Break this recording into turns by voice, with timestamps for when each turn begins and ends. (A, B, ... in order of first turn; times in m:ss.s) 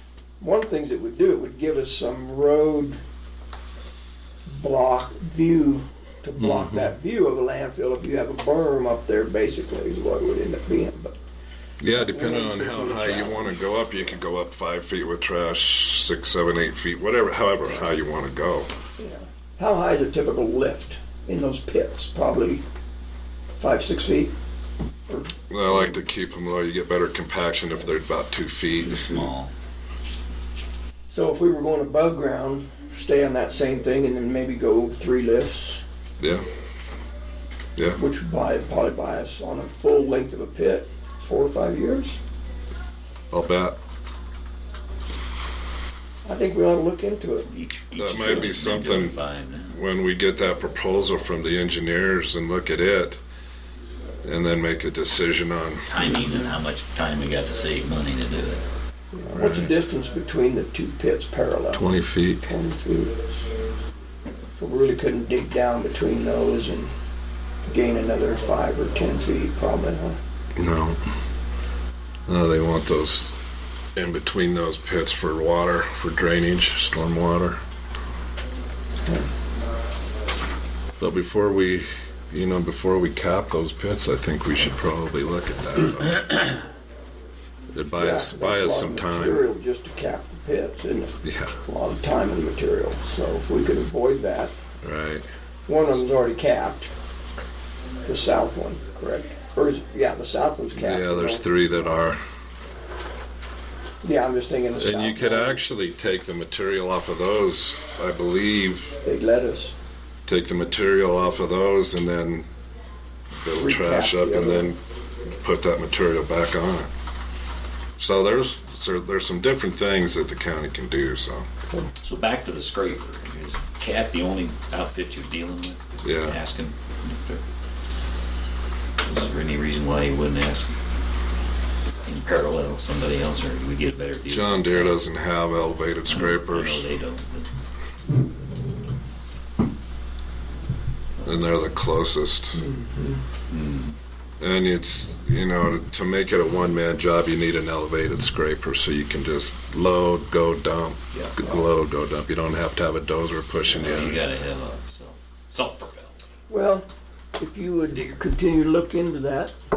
0:00.4-0:03.0 A
0:04.5-0:11.2 A
0:06.4-0:06.9 B
0:11.8-0:18.7 B
0:11.9-0:14.1 A
0:19.0-0:22.6 A
0:23.6-0:24.3 A
0:25.1-0:25.9 A
0:25.5-0:29.2 B
0:28.9-0:29.5 C
0:31.1-0:35.8 A
0:36.2-0:36.4 B
0:37.8-0:38.0 B
0:38.0-0:42.2 A
0:43.3-0:43.8 B
0:46.2-0:47.5 A
0:47.5-0:49.8 C
0:47.9-0:53.2 B
0:54.2-0:56.3 B
0:55.9-0:58.6 C
0:59.1-1:01.9 A
0:59.3-0:59.7 B
1:01.7-1:02.4 B
1:02.4-1:03.2 A
1:04.6-1:06.9 A
1:07.6-1:10.2 A
1:10.6-1:11.0 B
1:12.3-1:13.3 B
1:13.9-1:17.6 B
1:21.0-1:26.6 B
1:27.7-1:29.5 B
1:28.0-1:34.5 A
1:31.2-1:31.6 B
1:34.8-1:35.2 B
1:35.7-1:36.9 A
1:38.0-1:41.9 A
1:40.7-1:42.2 B
1:44.0-1:45.6 A
1:44.8-1:48.9 B
1:49.0-1:49.7 A
1:50.2-1:52.5 B
1:53.3-1:54.8 B
1:53.5-1:54.7 A
1:55.3-1:56.9 B
1:58.0-2:01.4 B
2:02.0-2:07.4 C
2:06.0-2:06.4 B
2:09.0-2:10.7 C
2:12.0-2:15.0 C
2:14.3-2:16.8 B
2:16.1-2:17.5 C
2:21.2-2:22.6 B
2:22.6-2:23.2 A
2:23.5-2:23.9 C
2:24.4-2:34.2 B
2:33.6-2:36.1 C
2:36.5-2:39.5 A
2:37.9-2:38.2 C